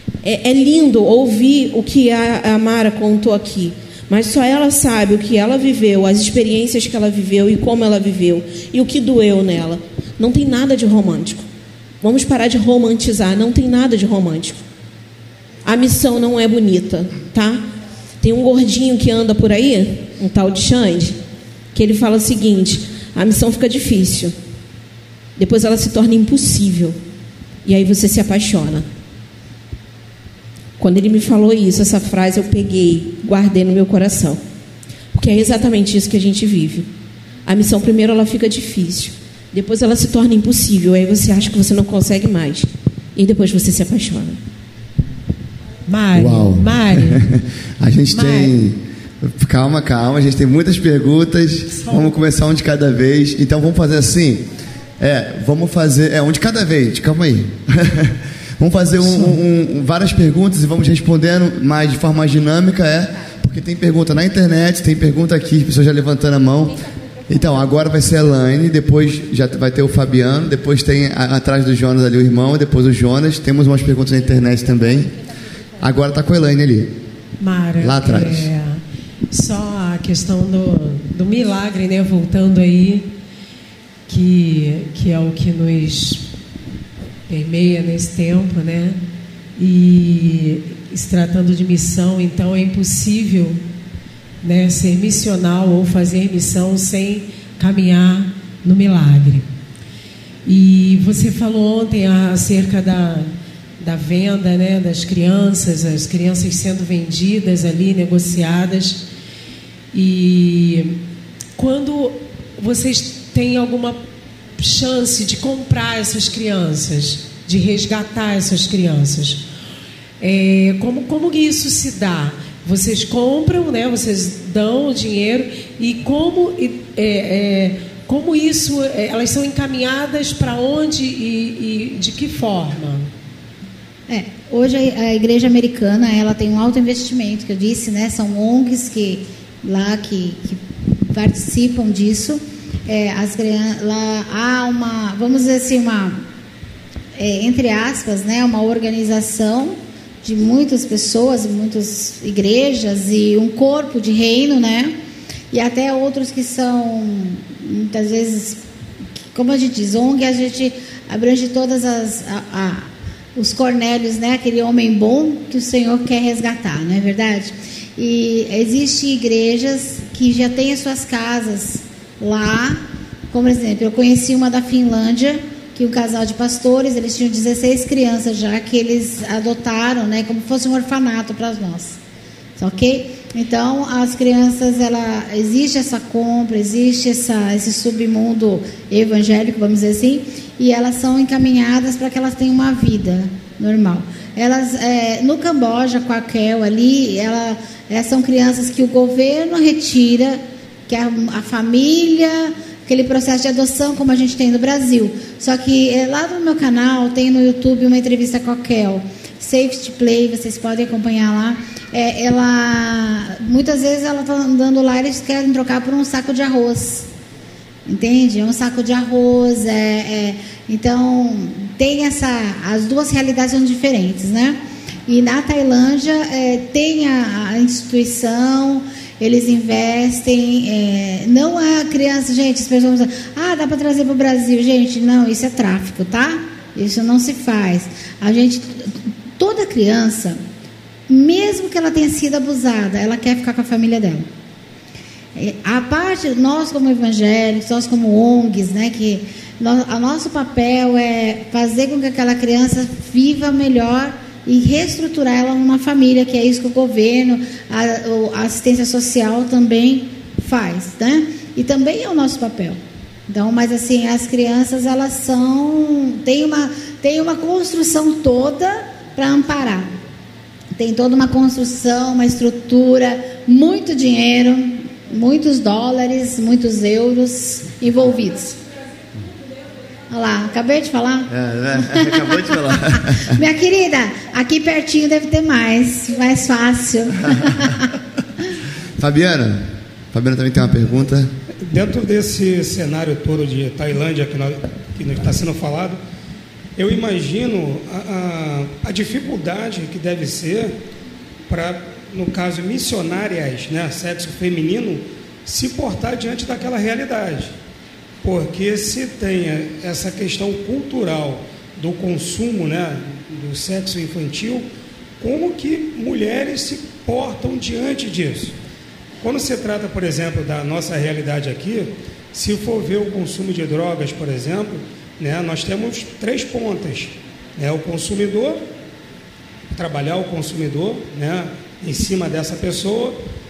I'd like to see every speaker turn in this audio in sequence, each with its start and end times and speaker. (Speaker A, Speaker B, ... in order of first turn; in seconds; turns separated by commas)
Speaker A: 0.2-11.4, Speaker A: 12.0-14.6, Speaker A: 15.7-17.6, Speaker A: 18.2-21.2, Speaker A: 21.7-24.3, Speaker A: 25.4-27.0, Speaker A: 27.6-28.9, Speaker A: 30.8-34.4, Speaker A: 35.1-36.9, Speaker A: 37.5-44.4, Speaker B: 45.9-47.3, Speaker C: 46.1-54.5, Speaker B: 48.1-48.6, Speaker B: 51.7-52.1, Speaker C: 55.0-75.2, Speaker B: 59.0-59.4, Speaker C: 75.8-77.0, Speaker B: 77.4-83.1, Speaker C: 77.8-78.5, Speaker B: 84.1-86.3, Speaker B: 87.3-89.0, Speaker B: 89.6-93.6, Speaker B: 94.4-99.5, Speaker B: 100.5-109.0, Speaker B: 109.9-111.0, Speaker B: 111.6-114.0, Speaker B: 114.6-119.5, Speaker B: 120.2-133.1, Speaker D: 134.1-146.2, Speaker D: 147.2-154.9, Speaker D: 155.5-158.6, Speaker D: 159.3-182.0, Speaker D: 182.6-217.1, Speaker D: 217.9-240.4, Speaker D: 241.1-244.3, Speaker D: 245.4-269.9, Speaker D: 270.8-278.6, Speaker D: 280.1-287.9, Speaker C: 281.3-283.4, Speaker C: 289.0-291.3, Speaker E: 291.6-296.0, Speaker E: 296.8-300.7, Speaker E: 301.5-307.5, Speaker E: 308.2-314.7, Speaker E: 315.2-318.5, Speaker E: 319.2-328.6, Speaker E: 329.7-333.2